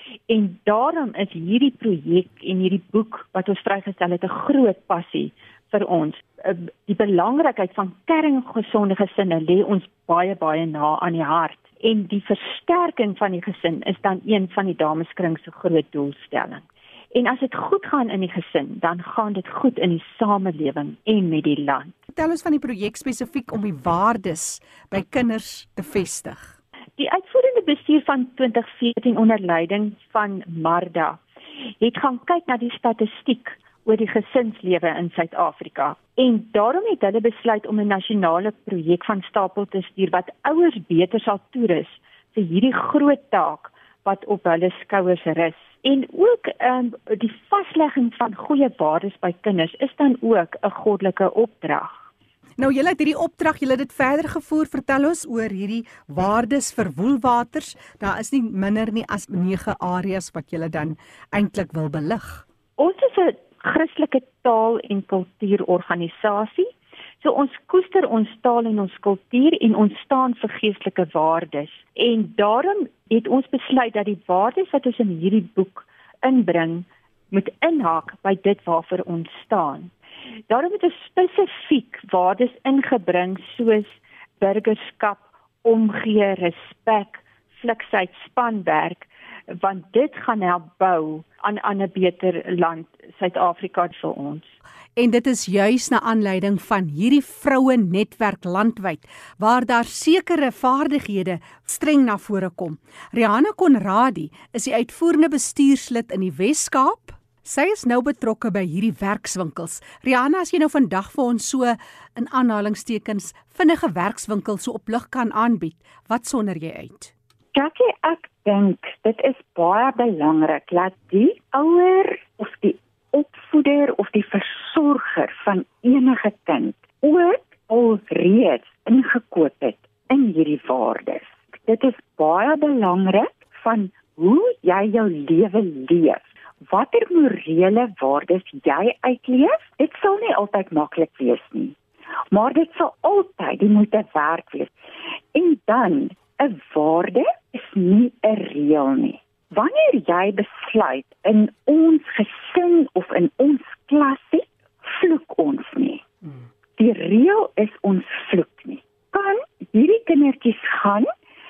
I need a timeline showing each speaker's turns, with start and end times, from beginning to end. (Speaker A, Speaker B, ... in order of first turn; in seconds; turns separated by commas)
Speaker A: 0.3-21.9, Speaker B: 22.1-26.5, Speaker A: 27.0-31.2, Speaker A: 31.8-52.0, Speaker B: 52.6-62.4, Speaker A: 62.8-66.7, Speaker A: 67.2-79.9, Speaker A: 80.5-94.5, Speaker B: 95.0-117.1, Speaker C: 117.5-141.8, Speaker C: 142.3-144.7, Speaker C: 145.3-156.0, Speaker C: 156.8-161.1